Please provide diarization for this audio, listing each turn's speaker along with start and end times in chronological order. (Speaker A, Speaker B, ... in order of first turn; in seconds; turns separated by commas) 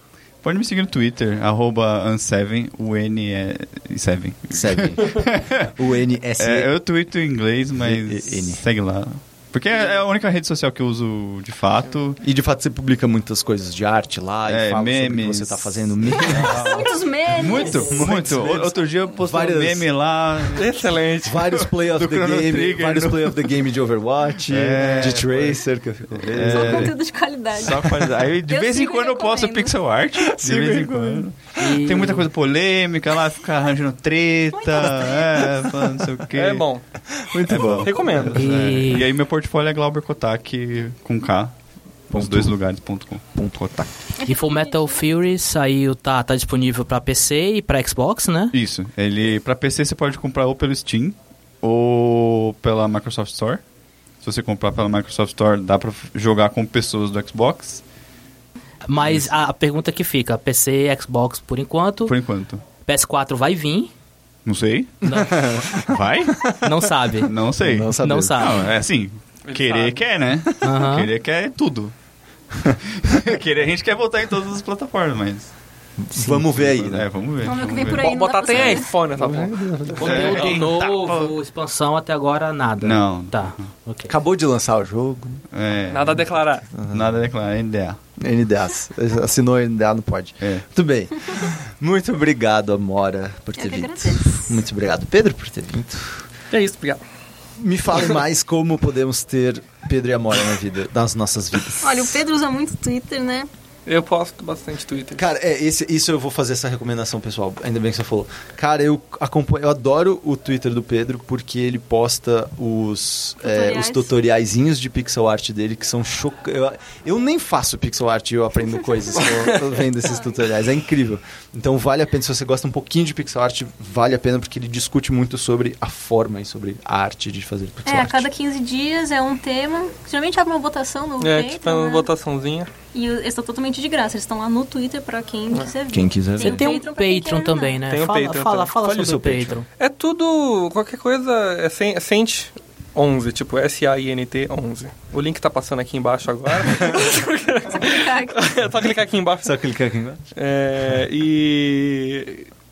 Speaker A: 0.4-5.7, Speaker B: 4.5-6.7, Speaker A: 6.4-12.2, Speaker B: 7.8-8.6, Speaker B: 12.2-16.8, Speaker A: 14.5-20.9, Speaker C: 16.3-18.0, Speaker B: 17.4-19.9, Speaker D: 20.6-21.5, Speaker B: 21.2-26.9, Speaker A: 21.5-23.4, Speaker A: 24.4-27.0, Speaker C: 26.3-29.8, Speaker A: 27.6-36.7, Speaker B: 30.3-31.2, Speaker E: 31.6-32.3, Speaker C: 34.5-35.6, Speaker D: 36.3-36.9, Speaker B: 37.2-38.3, Speaker A: 37.5-43.9, Speaker D: 37.5-38.5, Speaker E: 38.4-39.1, Speaker B: 42.1-42.7, Speaker B: 43.3-43.9, Speaker C: 44.2-45.0, Speaker E: 44.2-48.5, Speaker A: 48.5-53.6, Speaker A: 54.2-57.8, Speaker E: 58.9-62.2, Speaker A: 59.0-59.3, Speaker A: 62.1-62.6, Speaker E: 62.8-63.9, Speaker A: 64.5-66.5, Speaker E: 65.1-65.4, Speaker B: 65.1-65.8, Speaker E: 66.6-67.3, Speaker A: 67.2-72.0, Speaker B: 67.6-68.7, Speaker E: 68.0-68.6, Speaker D: 69.5-70.0, Speaker E: 70.6-71.1, Speaker A: 72.6-75.6, Speaker B: 76.1-77.1, Speaker A: 76.1-78.8, Speaker C: 77.4-78.9, Speaker D: 77.9-80.0, Speaker B: 79.2-80.5, Speaker A: 80.0-81.3, Speaker E: 80.0-84.1, Speaker A: 82.8-83.7, Speaker B: 84.1-85.4, Speaker A: 85.5-88.0, Speaker D: 85.9-86.8, Speaker B: 86.7-87.1, Speaker B: 88.2-96.3, Speaker C: 93.6-94.6, Speaker D: 96.5-97.0, Speaker B: 97.6-102.2, Speaker C: 101.8-103.5, Speaker D: 103.9-105.2, Speaker B: 105.2-128.3, Speaker C: 113.4-114.1, Speaker C: 127.9-132.1, Speaker D: 131.2-132.7, Speaker C: 132.9-137.8, Speaker B: 135.9-136.8, Speaker E: 136.4-139.7, Speaker D: 137.9-138.7, Speaker B: 138.8-139.6, Speaker D: 139.8-149.6, Speaker C: 147.7-148.5, Speaker B: 149.4-150.2, Speaker D: 150.3-152.5